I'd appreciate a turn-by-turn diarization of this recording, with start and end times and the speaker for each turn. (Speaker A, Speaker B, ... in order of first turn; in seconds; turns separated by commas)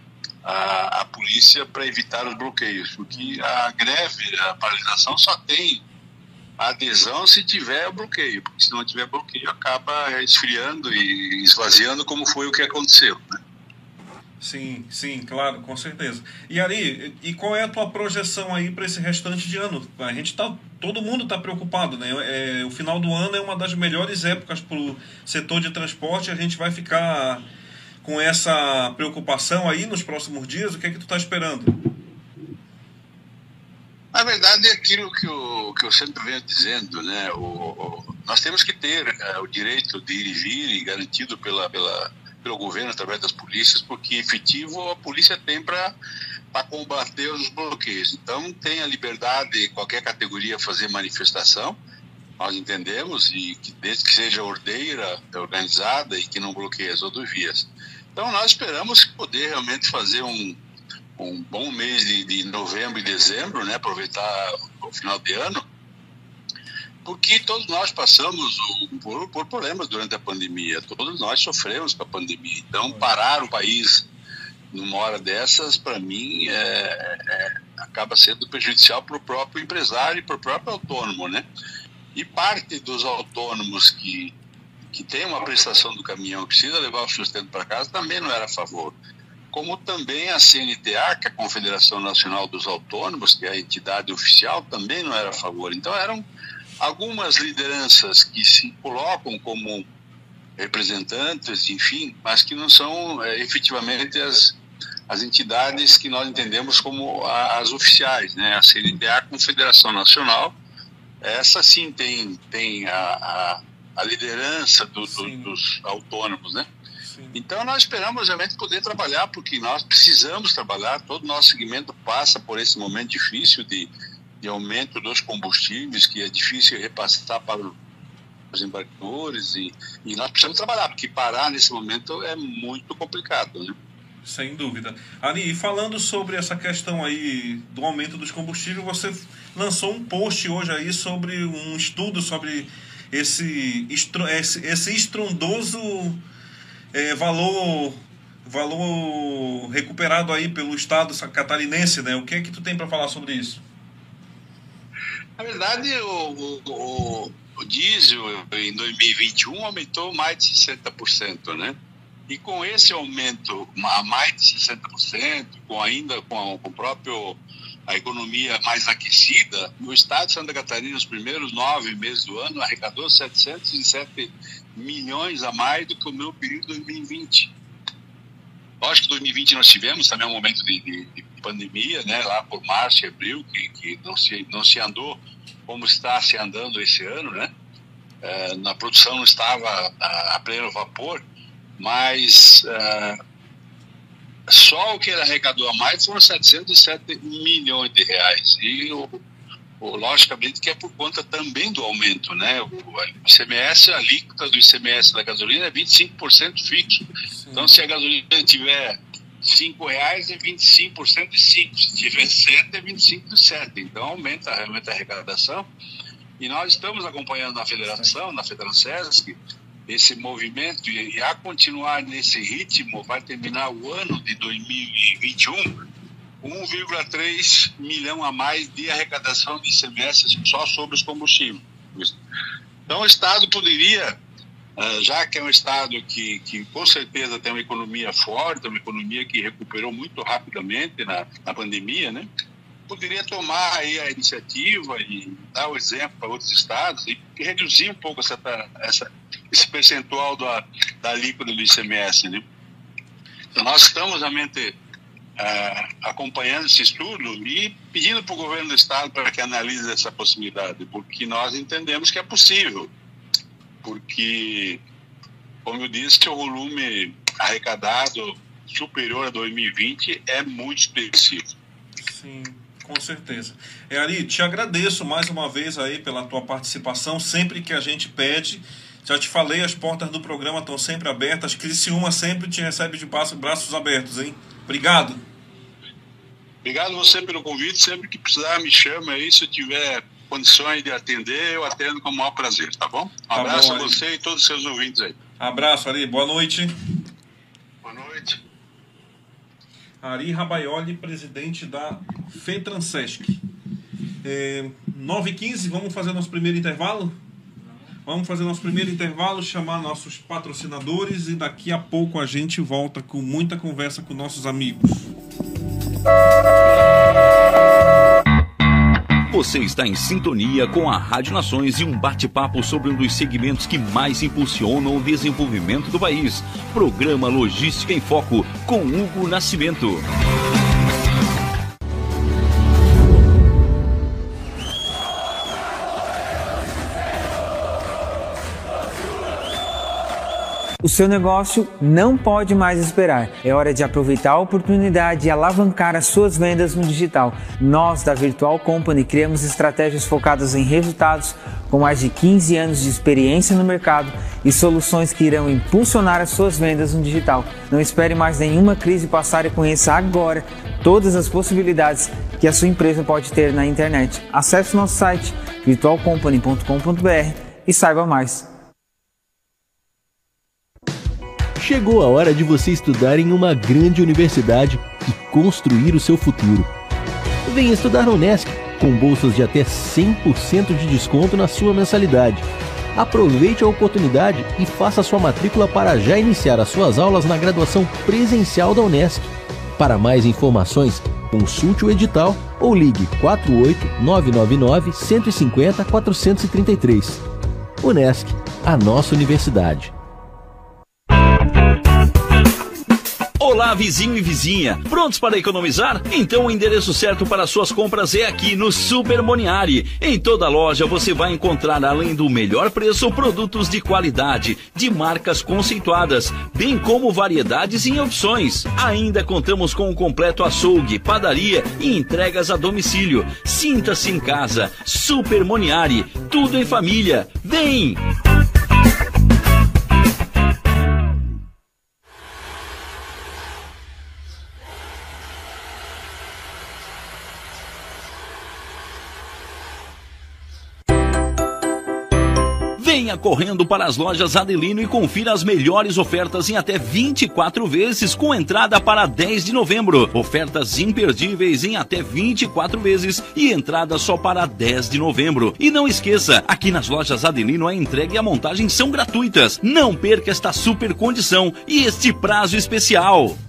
Speaker A: 0.5-5.8, Speaker A: 6.6-13.4, Speaker B: 14.4-27.4, Speaker B: 28.0-31.8, Speaker A: 34.1-45.9, Speaker A: 46.5-51.8, Speaker A: 52.4-60.6, Speaker A: 61.2-65.6, Speaker A: 67.0-74.1, Speaker A: 74.7-81.5, Speaker A: 82.2-84.3, Speaker A: 84.9-89.0, Speaker A: 89.5-96.2, Speaker A: 96.8-99.9, Speaker A: 100.6-104.6, Speaker A: 105.1-110.6, Speaker A: 111.2-116.7, Speaker B: 115.1-115.5, Speaker B: 117.1-117.4, Speaker A: 117.3-123.9, Speaker A: 124.4-127.7, Speaker A: 128.5-133.8, Speaker B: 134.2-146.2, Speaker B: 146.9-153.6, Speaker A: 155.4-161.8, Speaker A: 162.3-177.5, Speaker A: 178.8-187.5, Speaker A: 188.2-191.2, Speaker A: 191.8-193.2, Speaker A: 194.5-199.2, Speaker A: 199.8-215.7, Speaker B: 207.3-207.7, Speaker A: 216.4-219.4, Speaker A: 219.9-225.8, Speaker A: 226.4-232.2, Speaker A: 232.9-234.2, Speaker A: 234.8-242.3, Speaker A: 242.9-252.4, Speaker A: 253.5-254.8, Speaker A: 255.4-262.9, Speaker A: 263.8-264.8, Speaker A: 265.6-271.5, Speaker B: 272.0-285.2, Speaker A: 286.6-295.2, Speaker B: 293.3-294.0, Speaker B: 295.4-296.7, Speaker A: 297.8-298.4, Speaker B: 300.0-303.4, Speaker B: 304.2-307.2, Speaker B: 308.1-315.1, Speaker C: 319.3-330.1, Speaker D: 340.8-368.5, Speaker E: 371.6-376.7, Speaker E: 377.5-397.2, Speaker E: 397.8-399.9, Speaker C: 403.4-428.0, Speaker C: 442.8-463.4